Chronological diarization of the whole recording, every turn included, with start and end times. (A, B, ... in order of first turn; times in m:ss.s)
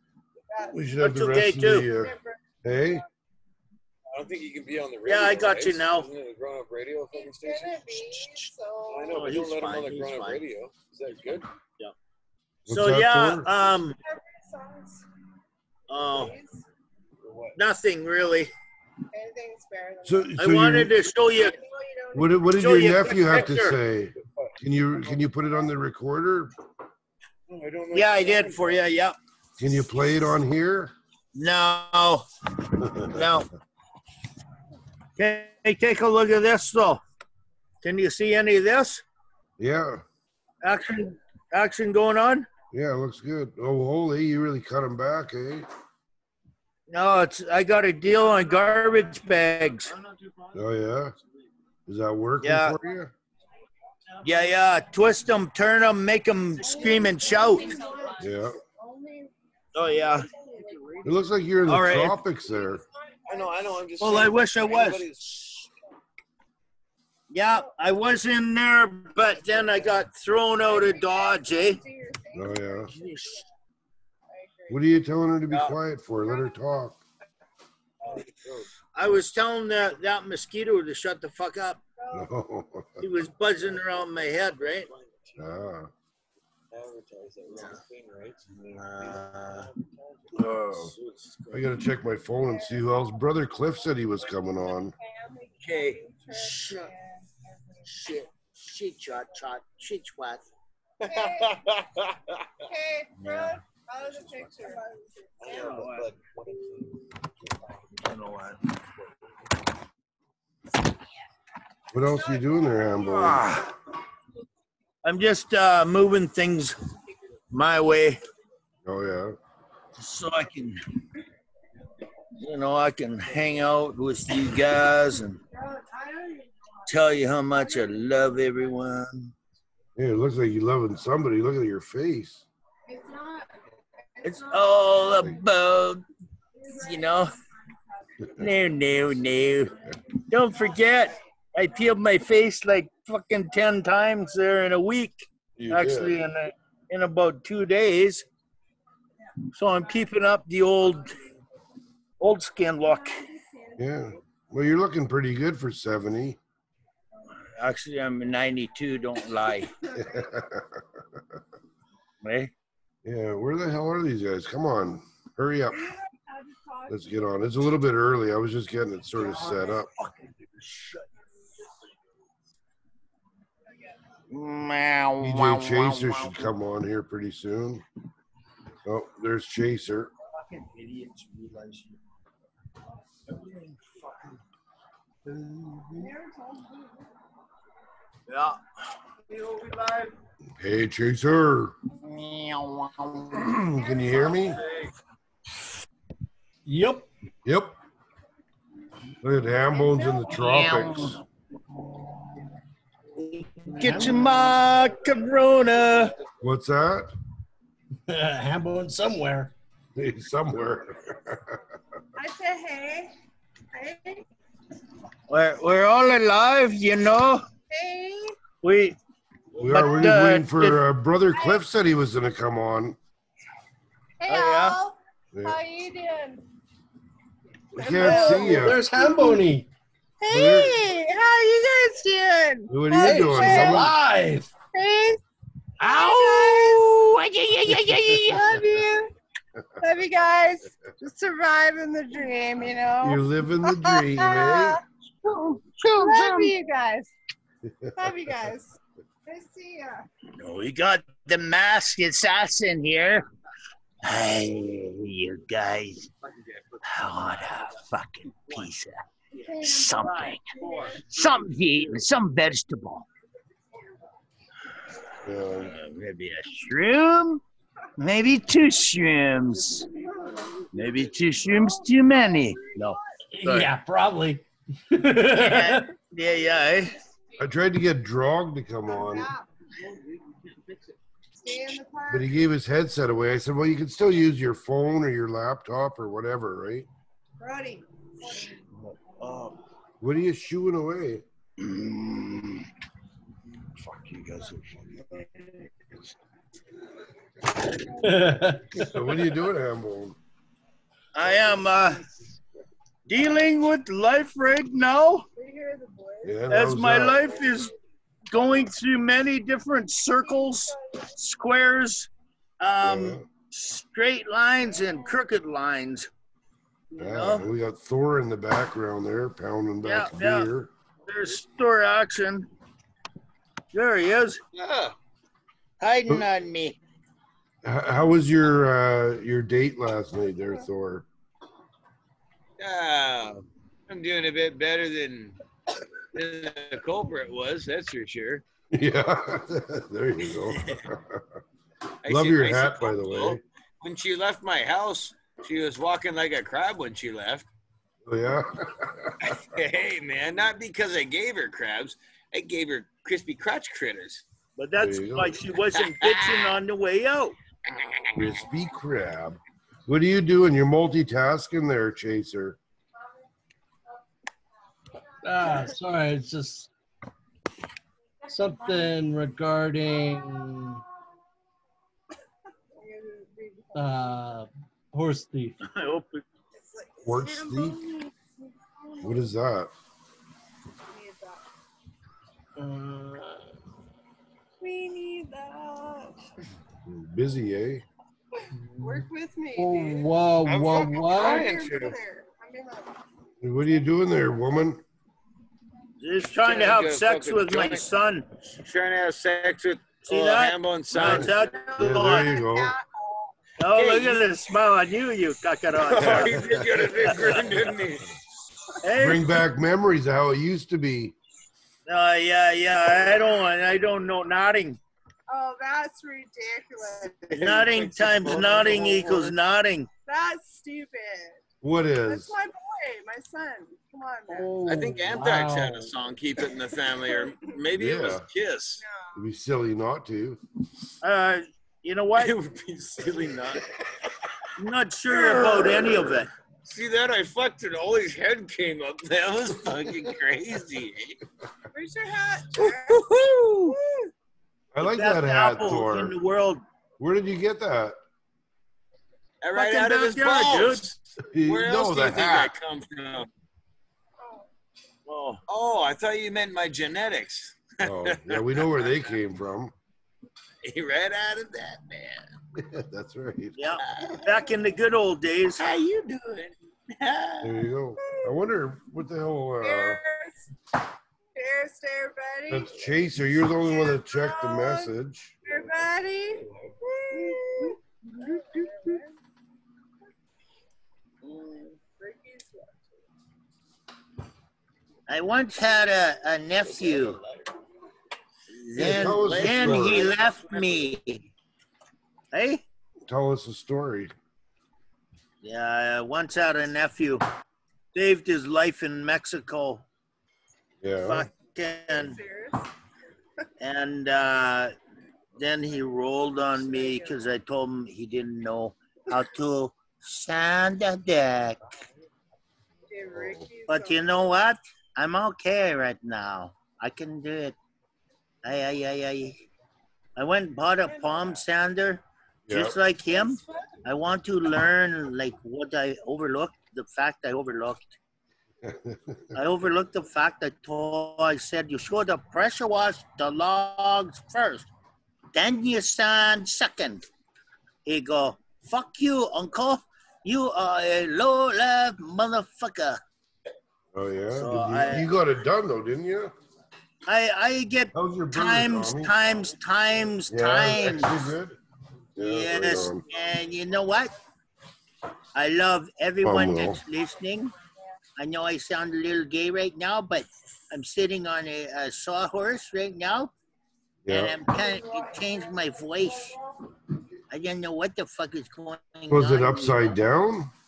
0:00.5-0:00.9 A
0:00.7-0:03.0 B
0:01.0-0:01.9 C
0:01.9-0:02.4 A
0:04.1-0:08.3 D
0:05.0-0:06.1 C
0:07.1-0:09.2 A
0:08.9-0:11.5 D
0:09.1-0:10.4 C
0:12.7-0:13.5 B
0:12.7-0:14.0 C
0:13.9-0:15.0 A
0:15.9-0:16.4 C
0:15.9-0:16.6 A
0:17.2-0:17.6 D
0:17.6-0:18.5 C
0:19.1-0:20.4 A
0:20.0-0:20.9 B
0:20.4-0:21.5 C
0:21.2-0:22.4 A
0:22.1-0:26.5 B
0:22.6-0:23.8 C
0:27.5-0:28.8 D
0:27.9-0:29.2 C
0:29.6-0:30.9 B
0:31.4-0:32.2 C
0:33.0-0:33.5 C
0:35.2-0:37.0 C
0:37.8-0:39.0 C
0:39.6-0:40.0 B
0:40.6-0:42.5 C
0:42.7-0:45.7 B
0:46.9-0:49.9 C
0:50.0-0:50.5 D
0:50.5-0:51.1 B
0:51.9-0:53.1 B
0:52.4-0:52.8 C
0:54.2-0:57.8 C
0:56.6-0:59.3 A
0:58.2-0:58.6 B
0:59.8-1:00.3 C
1:00.4-1:00.8 A
1:00.4-1:01.0 D
1:01.0-1:02.8 B
1:01.7-1:02.2 C
1:03.3-1:05.7 D
1:04.0-1:05.1 C
1:07.3-1:11.8 C
1:10.6-1:13.4 A
1:12.3-1:12.9 B
1:12.9-1:13.4 C
1:14.3-1:14.8 A
1:14.7-1:17.0 B
1:15.5-1:15.8 C
1:16.3-1:16.5 A
1:18.1-1:18.7 D
1:19.0-1:21.8 C
1:22.0-1:22.3 A
1:22.1-1:23.0 B
1:23.0-1:24.9 C
1:24.9-1:25.4 D
1:25.4-1:25.9 B
1:26.7-1:31.7 D
1:28.7-1:29.6 C
1:30.3-1:30.9 B
1:31.5-1:34.9 B
1:32.4-1:33.0 A
1:35.0-1:37.8 A
1:35.6-1:36.9 C
1:37.9-1:40.5 C
1:41.0-1:42.3 D
1:41.1-1:41.6 A
1:42.6-1:45.9 A
1:43.2-1:43.6 D
1:44.2-1:44.7 D
1:45.4-1:47.0 D
1:45.6-1:46.1 C
1:47.9-1:48.6 D
1:51.9-1:53.6 B
1:52.2-1:53.2 A
1:53.2-1:53.7 C
1:55.0-1:56.8 C
1:57.5-1:58.2 C
1:58.9-1:59.4 B
2:00.0-2:00.8 C
2:02.4-2:05.4 C
2:05.6-2:06.5 A
2:06.9-2:09.3 C
2:07.6-2:07.9 A
2:10.0-2:12.5 B
2:12.9-2:13.5 A
2:14.2-2:15.0 A
2:14.2-2:16.1 C
2:16.7-2:17.2 A
2:16.7-2:17.3 C
2:18.4-2:19.7 C
2:20.3-2:28.3 C
2:25.6-2:26.2 B
2:29.6-2:31.1 C
2:32.2-2:33.2 C
2:33.4-2:33.7 A
2:33.8-2:36.4 B
2:37.6-2:39.9 C
2:40.0-2:40.8 B
2:42.2-2:42.5 C
2:43.0-2:45.9 B
2:45.8-2:47.0 A
2:46.9-2:49.9 B
2:49.2-2:51.0 C
2:54.3-2:56.5 C
2:55.2-2:57.8 B
2:58.8-3:00.1 B
3:00.4-3:01.9 C
3:03.3-3:04.2 C
3:05.2-3:06.1 C
3:06.0-3:07.0 A
3:08.3-3:08.6 C
3:09.3-3:10.1 C
3:10.6-3:11.8 B
3:11.9-3:13.5 C
3:13.3-3:14.6 B
3:13.7-3:14.6 A
3:16.6-3:17.1 E
3:17.5-3:17.8 B
3:19.2-3:21.2 B
3:20.3-3:21.2 C
3:23.2-3:26.1 C
3:23.8-3:24.6 E
3:26.4-3:27.1 B
3:28.1-3:29.5 E
3:30.0-3:31.6 B
3:32.2-3:33.1 A
3:33.8-3:34.2 A
3:35.3-3:37.4 C
3:37.7-3:38.4 A
3:38.6-3:39.0 C
3:39.6-3:43.0 B
3:39.7-3:40.8 C
3:41.3-3:41.6 A
3:44.2-3:46.4 A
3:44.3-3:44.8 C
3:45.4-3:45.6 B
3:47.8-3:48.8 B
3:47.8-3:49.4 A
3:48.0-3:48.4 C
3:48.2-3:49.7 E
3:50.2-3:53.9 A
3:50.3-3:50.8 B
3:52.7-3:53.9 B
3:53.0-3:54.5 E
3:54.7-3:55.2 A
3:55.8-3:58.4 C
3:55.8-3:56.9 A
3:58.1-3:59.1 A
3:59.8-4:07.1 A
4:03.0-4:04.8 B
4:05.5-4:06.5 C
4:08.0-4:10.0 A
4:10.4-4:13.2 C
4:14.0-4:16.1 C
4:16.3-4:17.8 D
4:16.9-4:19.0 C
4:19.4-4:21.4 A
4:19.5-4:23.0 C
4:20.6-4:21.9 D
4:25.2-4:25.7 B
4:25.6-4:27.4 C
4:28.0-4:29.9 C
4:30.7-4:33.7 C
4:32.5-4:33.0 A
4:33.3-4:35.9 E
4:35.3-4:37.0 C
4:37.4-4:39.3 B
4:38.9-4:39.4 A
4:41.4-4:42.3 A
4:42.1-4:46.9 B
4:47.4-4:48.6 A
4:48.8-4:49.6 D
4:50.0-4:51.2 B
4:51.8-4:52.5 D
4:53.8-4:55.2 D
4:57.9-4:59.2 E
4:58.8-5:00.2 B
5:01.1-5:02.0 C
5:03.1-5:05.3 C
5:05.4-5:06.4 A
5:06.2-5:07.3 B
5:06.5-5:07.7 C
5:08.3-5:12.1 C
5:10.1-5:11.1 A
5:12.6-5:16.1 C
5:12.8-5:13.3 B
5:14.8-5:15.2 A
5:16.9-5:17.5 C
5:17.0-5:20.7 B
5:19.8-5:20.5 C
5:21.1-5:22.5 C
5:23.7-5:24.4 C
5:24.5-5:25.0 D
5:25.8-5:26.8 C
5:27.6-5:31.1 B
5:32.6-5:35.4 D
5:36.1-5:38.4 D
5:38.7-5:41.2 B
5:42.0-5:47.5 D
5:42.1-5:43.4 B
5:48.1-5:49.4 B
5:49.2-5:54.2 D
5:54.6-5:57.4 C
5:54.8-5:55.4 B
5:55.7-5:56.6 D
5:57.7-5:58.3 D
5:58.2-6:02.6 B
6:05.2-6:06.7 E
6:08.3-6:10.8 E
6:12.8-6:13.9 A
6:13.8-6:15.6 E
6:15.6-6:16.2 C
6:16.6-6:18.1 A
6:17.0-6:17.8 B
6:18.8-6:19.3 A
6:19.0-6:19.7 B
6:20.9-6:21.4 A
6:22.6-6:23.4 E
6:24.6-6:26.2 A
6:26.9-6:27.8 B
6:28.7-6:29.0 E
6:28.8-6:30.0 A
6:29.6-6:31.5 E
6:30.5-6:32.0 D
6:31.1-6:32.9 A
6:33.4-6:34.8 B
6:36.0-6:38.3 C
6:36.4-6:37.9 D
6:38.5-6:41.5 D
6:40.1-6:42.4 C
6:41.0-6:42.8 B
6:41.8-6:43.3 A
6:43.6-6:47.2 C
6:43.7-6:44.3 D
6:45.8-6:48.1 D
6:46.0-6:46.6 B
6:48.8-6:49.2 C
6:49.0-6:51.2 B
6:51.9-6:54.8 C
6:55.3-6:57.3 A
6:57.4-6:59.9 C
6:57.4-6:59.4 D
7:00.1-7:01.4 A
7:01.6-7:02.3 B
7:02.1-7:04.6 A
7:04.3-7:05.9 E
7:04.6-7:08.8 D
7:07.8-7:08.3 B
7:08.8-7:09.1 A
7:09.2-7:10.4 B
7:11.0-7:12.3 C
7:12.2-7:14.1 D
7:14.6-7:16.3 C
7:15.1-7:15.4 A
7:15.3-7:16.1 D
7:16.6-7:21.2 D
7:21.7-7:23.1 A
7:22.8-7:23.7 C
7:23.7-7:24.1 A
7:24.7-7:26.2 B
7:24.8-7:26.6 C
7:27.0-7:28.0 B
7:29.4-7:33.3 D
7:29.5-7:30.9 C
7:31.3-7:32.6 B
7:35.1-7:35.4 C
7:35.5-7:39.2 D
7:37.8-7:39.7 B
7:40.6-7:42.3 D
7:42.6-7:43.6 B
7:43.6-7:45.6 C
7:43.8-7:44.3 D
7:45.6-7:47.4 D
7:47.4-7:50.0 B
7:48.1-7:48.3 A
7:49.6-7:50.4 A
7:51.4-7:52.7 A
7:52.5-7:55.4 B
7:53.6-7:54.9 A
7:55.5-7:59.1 A
8:01.2-8:01.7 D
8:02.0-8:02.7 A
8:05.1-8:07.2 C
8:06.6-8:07.4 D
8:08.5-8:11.0 D
8:08.7-8:11.2 C
8:08.8-8:10.1 B
8:12.3-8:12.6 C
8:13.1-8:14.1 B
8:15.4-8:17.2 C
8:18.0-8:19.8 C
8:20.8-8:21.3 B
8:21.0-8:22.2 C
8:21.9-8:22.7 A
8:23.6-8:24.7 C
8:25.4-8:31.6 C
8:26.6-8:27.2 A
8:32.9-8:34.1 A
8:33.1-8:33.5 B
8:33.7-8:37.6 C
8:38.4-8:39.4 C
8:40.2-8:47.9 C
8:42.5-8:42.8 B
8:43.1-8:43.4 A
8:48.6-8:49.4 B
8:49.3-8:54.7 C
8:55.3-8:57.0 C
8:57.9-9:03.0 C
9:03.9-9:06.3 B
9:04.4-9:05.1 C
9:07.1-9:11.3 C
9:07.9-9:09.1 B
9:10.3-9:11.6 B
9:12.2-9:13.0 B
9:12.2-9:14.1 C
9:15.4-9:17.5 C
9:16.2-9:16.8 B
9:18.2-9:23.3 C
9:24.0-9:24.4 B
9:24.1-9:26.4 C
9:27.3-9:30.0 C
9:29.1-9:30.5 B